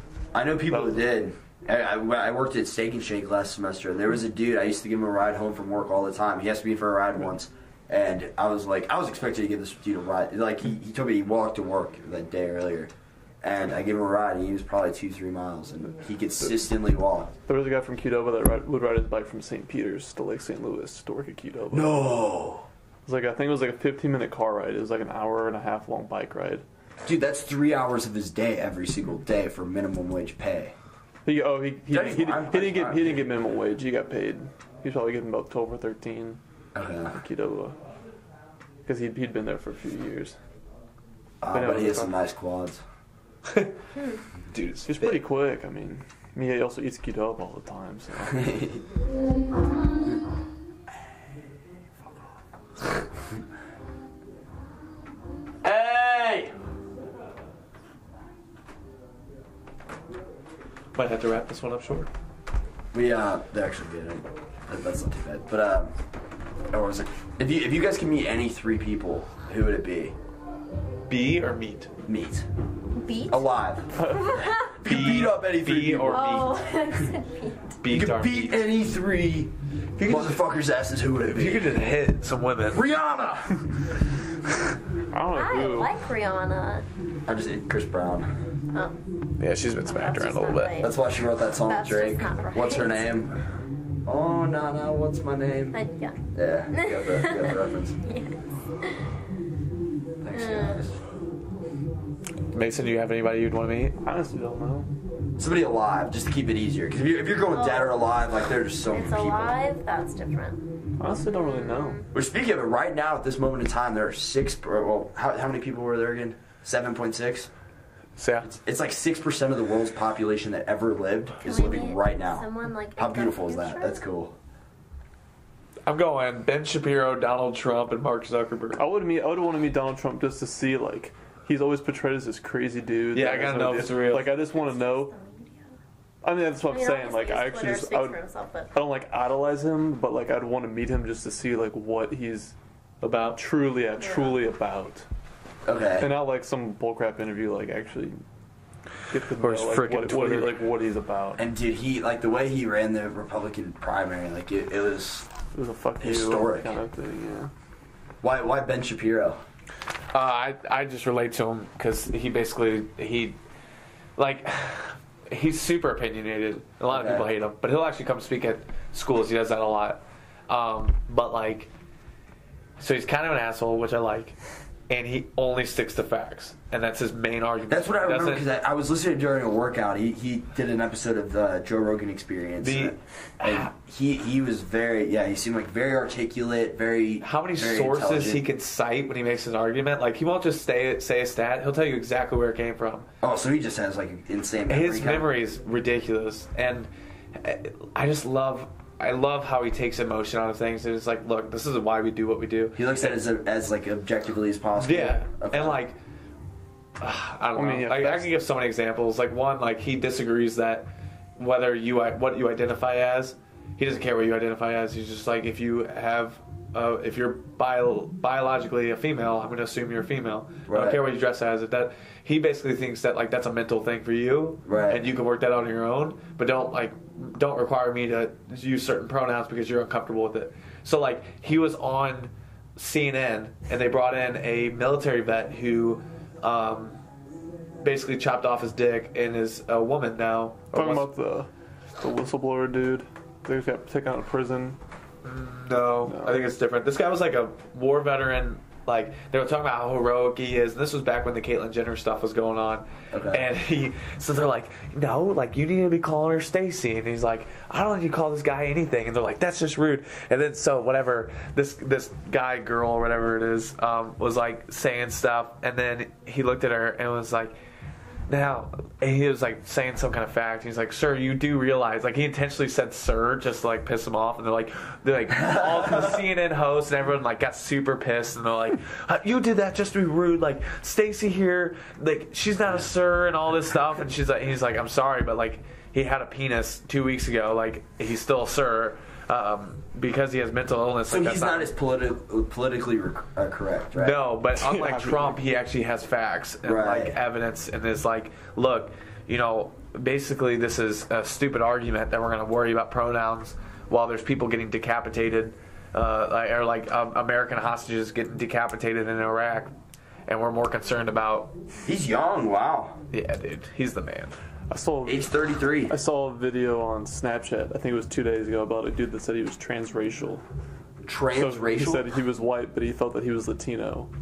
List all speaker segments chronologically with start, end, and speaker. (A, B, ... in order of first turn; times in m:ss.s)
0:00.3-0:17.3 A
0:00.7-0:01.0 B
0:17.5-0:22.1 B
0:21.7-0:22.7 A
0:23.1-0:26.6 B
0:27.0-0:30.8 A
0:31.2-0:36.4 B
0:31.9-0:33.3 A
0:36.8-0:37.2 A
0:37.1-0:37.8 B
0:38.8-0:40.4 B
0:41.4-0:42.8 A
0:41.5-0:42.2 B
0:43.5-0:43.8 C
0:44.5-0:45.2 C
0:44.9-0:48.4 B
0:48.3-0:48.8 A
0:55.6-0:56.5 A
1:01.0-1:02.1 C
1:02.9-1:05.9 A
1:06.7-1:10.2 A
1:11.1-1:11.9 C
1:12.1-1:12.5 A
1:13.0-1:13.5 D
1:13.3-1:16.4 A
1:14.0-1:14.7 D
1:14.0-1:14.3 B
1:14.8-1:16.6 C
1:16.1-1:17.8 D
1:17.8-1:18.6 C
1:17.9-1:21.8 A
1:20.0-1:20.4 C
1:21.3-1:22.8 C
1:22.7-1:23.7 A
1:25.1-1:25.9 B
1:25.3-1:26.9 D
1:27.3-1:28.3 A
1:28.7-1:29.0 D
1:29.4-1:30.8 C
1:29.8-1:31.0 D
1:30.8-1:33.4 A
1:31.6-1:33.2 D
1:34.1-1:35.8 A
1:35.7-1:36.2 D
1:36.3-1:38.0 A
1:36.7-1:39.0 D
1:40.2-1:41.0 A
1:40.3-1:40.8 D
1:42.5-1:44.0 C
1:44.0-1:44.9 B
1:45.4-1:49.6 A
1:47.5-1:48.0 D
1:48.9-1:52.1 D
1:51.0-1:52.0 B
1:52.1-1:57.5 A
1:58.2-1:58.5 C
1:58.4-2:04.4 A
2:01.4-2:04.0 D
2:05.9-2:08.8 C
2:08.8-2:15.1 B
2:13.1-2:14.4 C
2:14.2-2:15.8 D
2:16.2-2:18.2 B
2:16.7-2:18.7 D
2:18.7-2:22.6 B
2:23.0-2:23.4 C
2:23.2-2:25.1 B
2:24.0-2:24.4 D
2:25.6-2:26.1 A
2:26.0-2:28.2 B
2:29.1-2:31.4 B
2:29.4-2:30.6 C
2:31.4-2:35.3 A
2:35.5-2:37.5 B
2:36.0-2:36.8 A
2:38.2-2:39.4 A
2:40.1-2:43.4 C
2:44.2-2:51.7 C
2:46.9-2:47.3 A
2:52.8-2:54.4 C
2:54.9-2:58.5 C
2:57.7-3:08.4 A
3:02.6-3:03.7 C
3:07.2-3:13.1 C
3:13.2-3:15.3 A
3:14.7-3:23.2 C
3:22.8-3:25.8 A
3:24.8-3:26.0 C
3:27.0-3:57.0 C
3:27.6-3:28.3 B
3:40.7-3:41.0 A
3:44.7-3:45.1 A
3:57.8-4:01.1 C
4:00.7-4:01.5 B
4:02.0-4:04.8 B
4:05.2-4:27.6 C
4:06.1-4:06.5 B
4:13.1-4:13.4 A
4:28.3-4:51.7 C
4:51.1-4:54.2 A
4:54.0-5:09.7 C
4:54.6-4:55.4 B
4:56.6-4:57.2 A
5:10.3-5:11.5 C
5:11.9-5:13.0 A
5:13.1-5:14.4 C
5:14.7-5:15.3 B
5:15.0-5:16.0 A
5:15.9-5:20.4 B
5:21.0-5:22.1 A
5:21.4-5:24.1 B